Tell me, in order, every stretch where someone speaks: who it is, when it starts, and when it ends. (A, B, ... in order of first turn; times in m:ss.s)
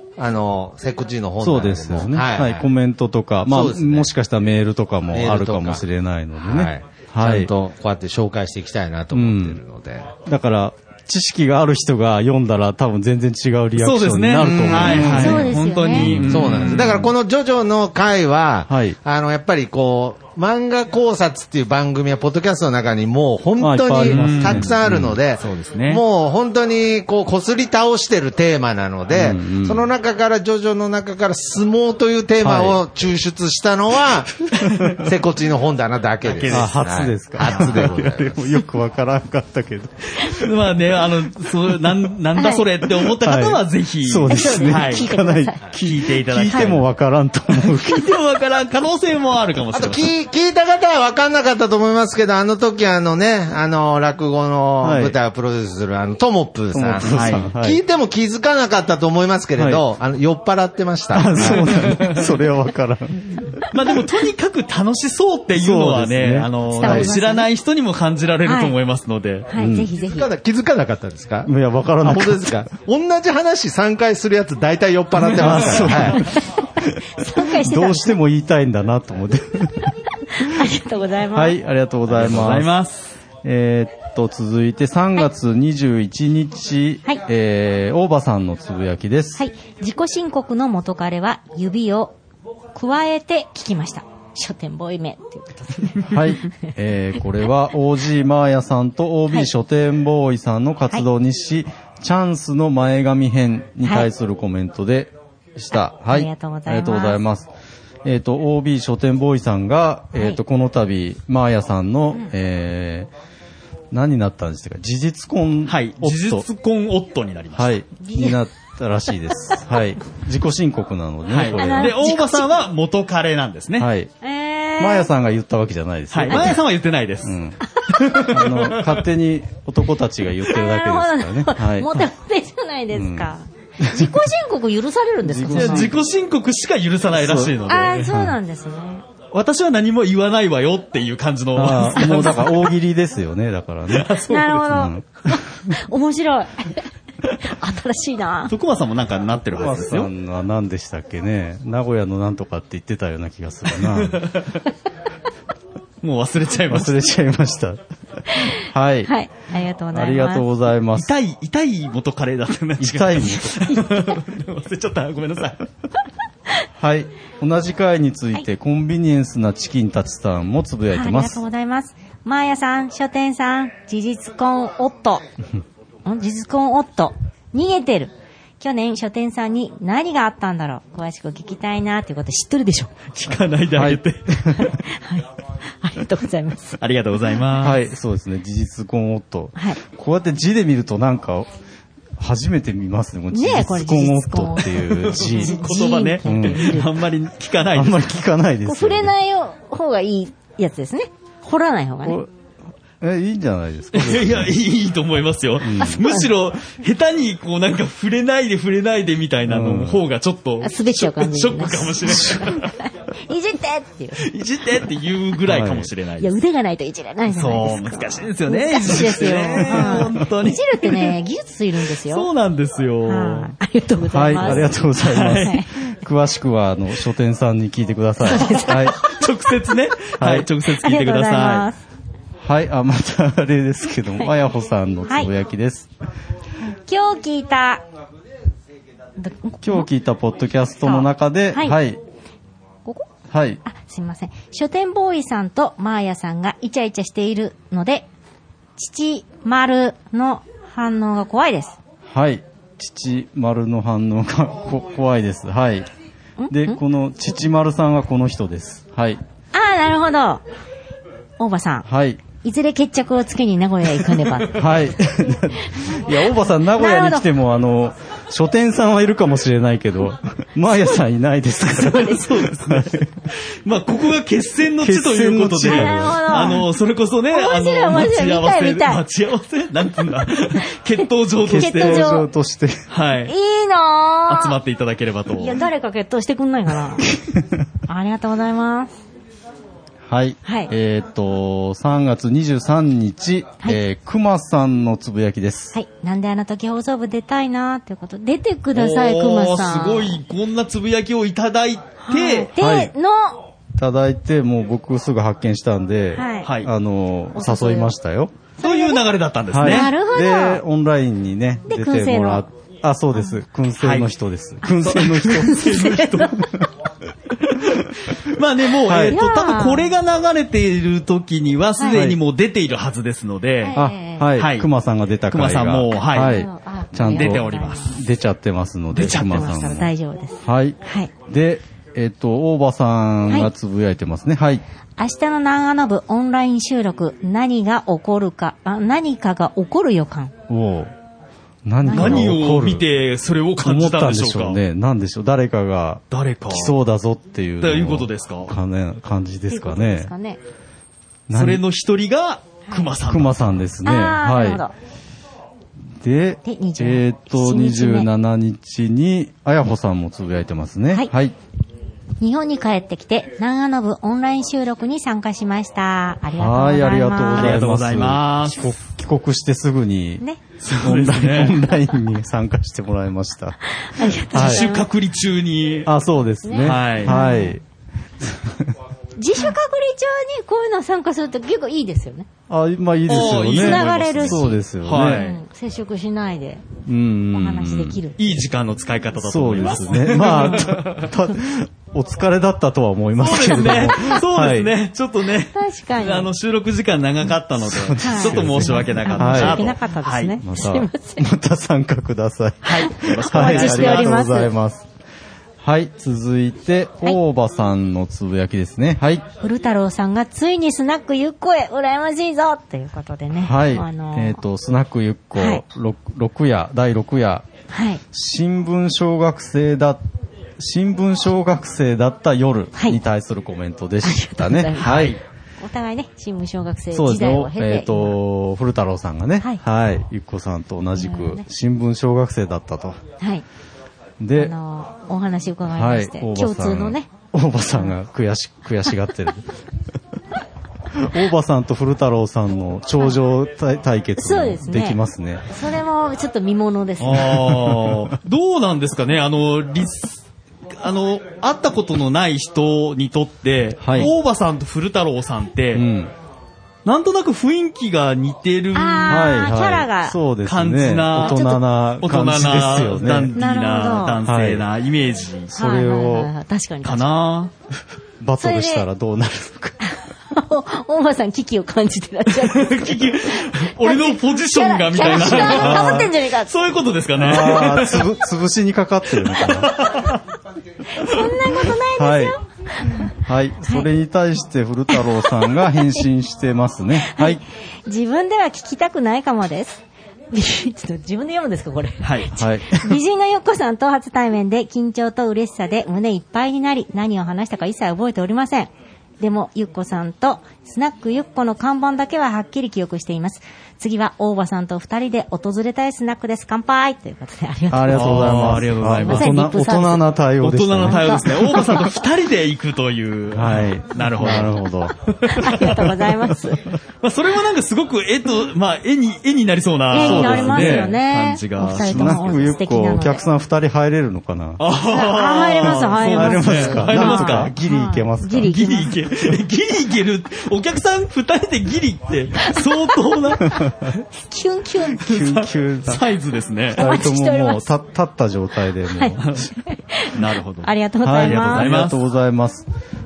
0:00.2-0:02.7 A
0:01.4-0:07.5 B
0:03.5-0:04.1 A
0:05.1-0:05.8 A
0:06.4-0:10.1 A
0:09.1-0:09.6 B
0:10.3-0:17.1 B
0:13.8-0:17.1 C
0:14.6-0:15.1 A
0:15.0-0:16.1 D
0:16.3-0:38.6 A
0:18.7-0:19.0 B
0:23.6-0:25.2 B
0:24.0-0:24.8 C
0:25.4-0:26.0 C
0:29.1-0:29.9 B
0:32.4-0:32.8 B
0:34.6-0:34.9 C
0:34.6-0:35.0 B
0:36.2-0:36.8 C
0:36.5-0:40.6 B
0:37.4-0:37.9 C
0:40.2-0:45.1 C
0:42.4-0:42.6 D
0:43.0-0:48.2 B
0:44.3-0:45.7 D
0:45.7-0:46.9 C
0:47.5-0:50.1 C
0:49.7-1:02.0 A
0:54.8-0:55.2 B
0:56.7-0:57.8 B
0:57.1-0:57.5 C
0:59.6-0:59.8 B
1:01.1-1:03.6 B
1:01.4-1:02.3 C
1:03.7-1:09.5 C
1:05.5-1:07.1 B
1:06.7-1:07.5 D
1:08.4-1:08.8 D
1:09.5-1:10.3 D
1:09.6-1:09.9 B
1:10.0-1:16.3 A
1:11.5-1:12.6 B
1:15.2-1:19.9 B
1:15.5-1:15.9 C
1:16.2-1:18.1 D
1:20.3-1:21.6 D
1:21.3-1:22.7 B
1:22.1-1:23.2 C
1:23.4-1:29.4 B
1:29.4-1:32.1 D
1:32.7-1:36.5 D
1:36.1-1:47.5 B
1:43.8-1:44.1 D
1:46.1-1:47.2 D
1:48.0-1:53.1 B
1:53.9-1:56.5 B
1:55.7-1:57.8 C
1:57.5-2:02.1 B
1:58.0-1:58.4 D
2:01.3-2:03.9 C
2:01.5-2:02.5 D
2:03.8-2:04.1 B
2:04.2-2:05.1 D
2:04.8-2:06.6 B
2:06.1-2:07.4 C
2:07.2-2:07.6 B
2:07.7-2:08.4 D
2:07.9-2:09.0 C
2:08.2-2:12.0 B
2:10.5-2:15.9 D
2:12.9-2:13.3 B
2:13.8-2:14.3 B
2:15.2-2:16.0 B
2:15.5-2:18.1 C
2:17.1-2:18.4 B
2:17.7-2:19.0 D
2:19.3-2:22.6 C
2:21.6-2:25.4 B
2:22.0-2:22.5 D
2:23.9-2:24.7 C
2:24.3-2:26.9 D
2:27.4-2:28.5 D
2:28.5-2:30.1 C
2:29.4-2:34.2 B
2:33.8-2:34.6 C
2:36.0-2:37.0 C
2:36.7-2:39.1 B
2:38.3-2:40.5 D
2:39.9-2:41.1 B
2:41.0-2:45.7 C
2:42.8-2:43.8 B
2:46.8-2:51.4 B
2:50.9-2:55.2 D
2:56.0-3:02.9 D
3:03.1-3:04.6 C
3:03.7-3:04.7 B
3:04.6-3:06.8 D
3:06.8-3:07.8 C
3:07.6-3:11.5 B
3:12.2-3:15.6 B
3:13.3-3:16.9 D
3:15.0-3:18.1 C
3:16.2-3:16.8 B
3:17.7-3:19.1 B
3:18.6-3:22.2 D
3:22.0-3:22.3 B
3:23.0-3:24.5 B
3:23.9-3:32.7 C
3:25.6-3:26.1 B
3:25.8-3:26.3 D
3:29.5-3:30.0 B
3:30.6-3:34.2 D
3:34.2-3:36.4 C
3:35.4-3:35.9 B
3:36.2-3:42.3 D
3:37.3-3:41.1 C
3:39.7-3:40.1 B
3:42.1-3:43.5 C
3:43.0-3:45.7 D
3:44.1-3:49.0 B
3:44.4-3:45.6 C
3:48.2-3:49.3 D
3:48.4-3:51.7 C
3:50.2-3:50.5 B
3:50.8-3:51.8 D
3:52.4-3:55.9 B
3:56.7-3:57.8 D
3:59.2-3:59.9 D
3:59.6-4:02.0 B
4:00.8-4:01.8 D
4:03.3-4:03.6 B
4:03.6-4:08.1 D
4:08.8-4:11.8 D
4:12.1-4:15.9 B
4:16.4-4:16.8 D
4:16.5-4:19.2 B
4:19.5-4:20.4 D
4:21.4-4:21.9 D
4:21.9-4:22.2 B
4:22.4-4:24.6 D
4:24.5-4:33.1 B
4:25.7-4:26.2 D
4:26.7-4:27.3 D
4:30.7-4:31.0 D
4:31.7-4:32.3 D
4:31.9-4:42.2 C
4:34.8-4:36.2 B
4:35.7-4:36.7 D
4:37.3-4:39.0 D
4:41.4-4:42.9 B
4:41.5-4:42.3 D
4:42.9-4:43.3 C
4:43.3-4:44.6 D
4:44.3-4:45.6 C
4:45.4-4:47.1 D
4:47.1-4:47.6 B
4:47.9-4:49.0 D
4:50.1-4:55.8 B
4:50.4-4:50.7 D
4:55.7-5:00.2 D
4:58.7-5:02.5 C
5:02.0-5:03.4 D
5:02.6-5:02.9 B
5:03.8-5:08.3 B
5:06.1-5:06.5 D
5:06.4-5:06.7 C
5:07.4-5:07.9 D
5:08.6-5:09.0 D
5:08.6-5:09.9 C
5:09.5-5:16.0 B
5:09.6-5:10.6 D
5:11.7-5:12.5 D
5:13.8-5:14.1 C
5:14.8-5:16.5 C
5:15.3-5:16.5 D
5:17.4-5:23.8 C
5:18.8-5:19.2 B
5:19.1-5:19.9 D
5:21.9-5:22.2 B
5:23.6-5:24.3 D
5:23.8-5:29.9 B
5:24.4-5:24.7 C
5:25.3-5:26.4 C
5:26.0-5:28.0 D
5:27.0-5:28.0 C
5:28.9-5:29.7 C
5:29.0-5:31.1 D
5:30.4-5:34.6 B
5:35.0-5:40.3 D
5:40.5-5:40.9 B
5:41.6-5:42.9 B
5:41.8-5:42.3 D
5:41.9-5:44.6 C
5:43.6-5:50.1 B
5:46.1-5:46.7 C
5:47.6-5:48.5 C
5:49.5-5:50.4 D
5:51.3-5:51.6 B
5:51.3-5:53.4 C
5:53.0-5:54.6 B
5:53.8-5:54.7 D
5:56.0-6:01.4 B
5:56.4-5:58.1 D
6:02.2-6:07.7 D
6:06.4-6:10.2 B
6:07.4-6:08.7 C
6:10.6-6:11.6 C
6:10.8-6:13.6 B
6:13.7-6:14.8 D
6:14.3-6:14.7 B
6:14.3-6:15.9 C
6:15.9-6:17.6 B
6:16.4-6:17.6 D
6:16.6-6:17.2 C
6:18.2-6:18.8 B
6:19.2-6:22.3 D
6:22.5-6:25.2 B
6:23.1-6:25.4 C
6:23.5-6:26.7 D
6:26.9-6:28.0 B
6:27.3-6:28.2 D
6:28.2-6:31.1 C
6:29.2-6:34.7 B
6:33.2-6:40.4 C
6:35.5-6:36.3 D
6:37.6-6:39.8 B
6:38.0-6:41.3 D
6:40.4-6:44.9 B
6:42.6-6:44.3 C
6:42.8-6:44.5 D
6:45.6-6:49.3 B
6:49.4-6:54.4 D
6:53.3-6:57.4 B
6:55.4-6:55.6 D
6:57.7-6:58.0 D
6:58.1-7:00.0 B
7:00.6-7:05.2 B
7:04.0-7:08.2 D
7:04.8-7:05.2 C
7:06.9-7:13.0 B
7:11.0-7:11.4 D
7:14.2-7:14.6 B
7:14.4-7:17.1 D
7:15.7-7:19.4 B
7:20.9-7:25.5 B
7:24.2-7:27.4 D
7:27.0-7:30.2 C
7:27.3-7:28.1 B
7:30.8-7:35.9 C
7:33.8-7:34.1 B
7:35.7-7:36.1 B
7:36.8-7:39.3 C
7:38.7-7:40.2 D
7:39.1-7:43.4 B
7:40.5-7:45.5 C
7:41.2-7:41.6 D
7:43.4-7:44.2 D
7:44.2-7:44.7 B
7:45.5-7:47.1 D
7:45.5-7:46.3 B
7:46.8-7:47.5 C
7:48.2-7:49.8 B
7:48.4-7:48.9 D
7:49.8-7:56.6 D
7:52.3-7:58.1 C
7:55.0-7:56.1 B
7:57.2-7:59.7 B
7:59.2-8:00.2 C
8:00.9-8:03.1 D
8:02.0-8:02.4 B
8:03.0-8:07.4 B
8:04.9-8:06.0 D
8:07.0-8:30.0 D
8:12.0-8:12.3 C
8:12.4-8:13.0 B
8:27.7-8:31.8 B
8:27.9-8:29.4 C
8:30.4-8:36.0 C
8:30.9-8:32.0 D
8:33.3-8:35.0 B
8:35.4-8:36.6 D
8:37.0-8:42.5 C
8:39.9-8:43.2 D
8:39.9-8:41.0 B
8:41.8-8:44.6 B
8:44.6-8:47.5 C
8:44.8-8:49.0 D
8:45.6-8:48.6 B
8:48.4-8:54.0 C
8:54.1-8:55.1 D
8:55.0-8:56.0 B
8:55.0-8:56.8 C
8:56.8-8:57.7 D
8:56.8-8:59.4 B
8:58.9-9:01.7 D
8:59.2-8:59.5 C
9:00.1-9:02.0 C
9:01.0-9:02.7 B